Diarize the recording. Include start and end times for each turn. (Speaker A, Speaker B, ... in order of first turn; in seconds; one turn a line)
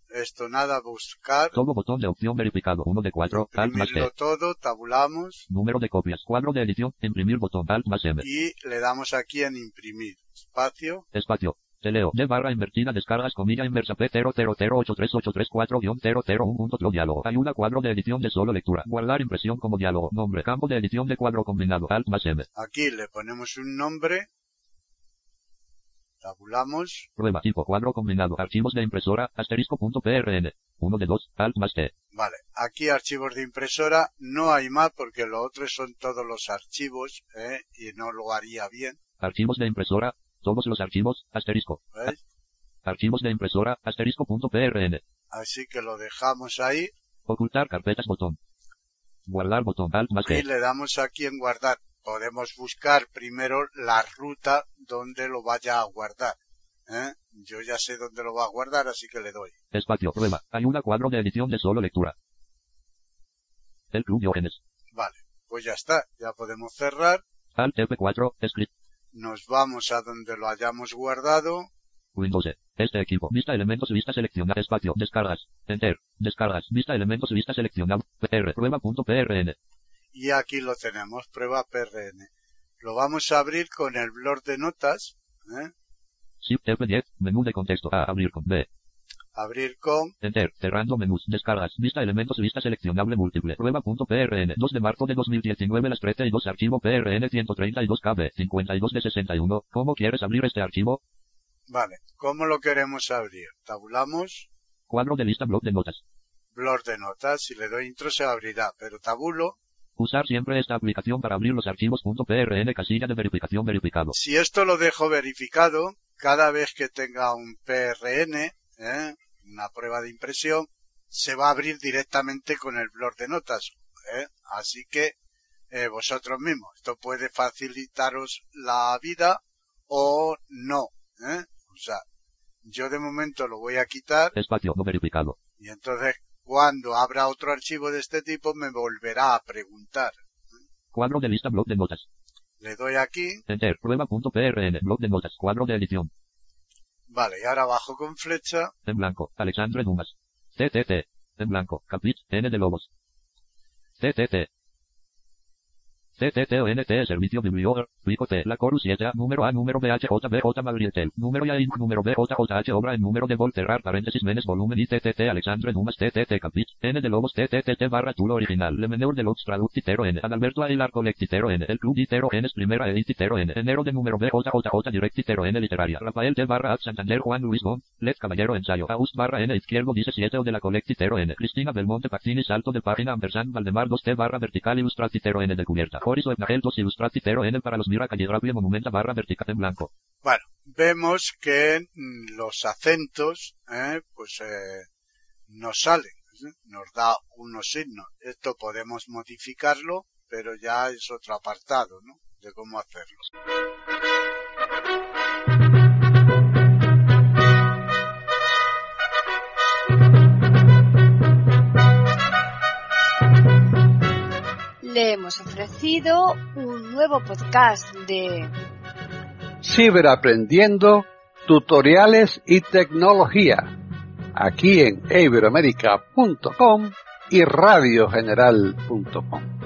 Speaker A: 0.1-1.6
Speaker B: 1.5-4.1
Speaker A: 3.3-5.5
Speaker B: 5.5-8.2
Speaker A: 8.2-11.1
Speaker B: 11.1-22.5
Speaker A: 22.6-24.3
Speaker A: 26.2-27.1
Speaker B: 27.2-31.9
Speaker A: 32.1-39.0
Speaker B: 39.2-42.1
Speaker A: 41.9-42.2
Speaker B: 42.9-45.0
Speaker A: 45.3-46.9
Speaker B: 47.3-48.4
Speaker B: 49.3-50.5
Speaker A: 50.2-56.4
Speaker A: 56.9-59.5
Speaker B: 59.7-62.1
Speaker B: 63.9-64.6
Speaker A: 64.9-67.2
Speaker B: 67.6-68.7
Speaker A: 69.1-71.7
Speaker B: 72.2-79.6
Speaker A: 80.1-82.3
Speaker A: 82.8-85.7
Speaker B: 86.4-88.7
Speaker A: 89.3-90.1
Speaker B: 90.2-101.0
Speaker A: 101.7-104.5
Speaker B: 104.9-106.0
Speaker A: 106.5-109.6
Speaker B: 110.0-114.2
Speaker A: 114.1-125.2
Speaker A: 125.7-132.0
Speaker A: 132.6-134.3
Speaker B: 134.3-135.4
Speaker A: 135.6-140.2
Speaker B: 140.9-142.1
Speaker A: 142.6-143.4
Speaker B: 143.5-146.1
Speaker A: 147.1-148.7
Speaker B: 148.8-152.9
Speaker B: 154.0-154.5
Speaker B: 156.2-189.9
Speaker A: 190.2-194.9
Speaker A: 195.5-203.3
Speaker C: 214.8-218.5
Speaker D: 219.6-223.7
Speaker D: 224.3-229.5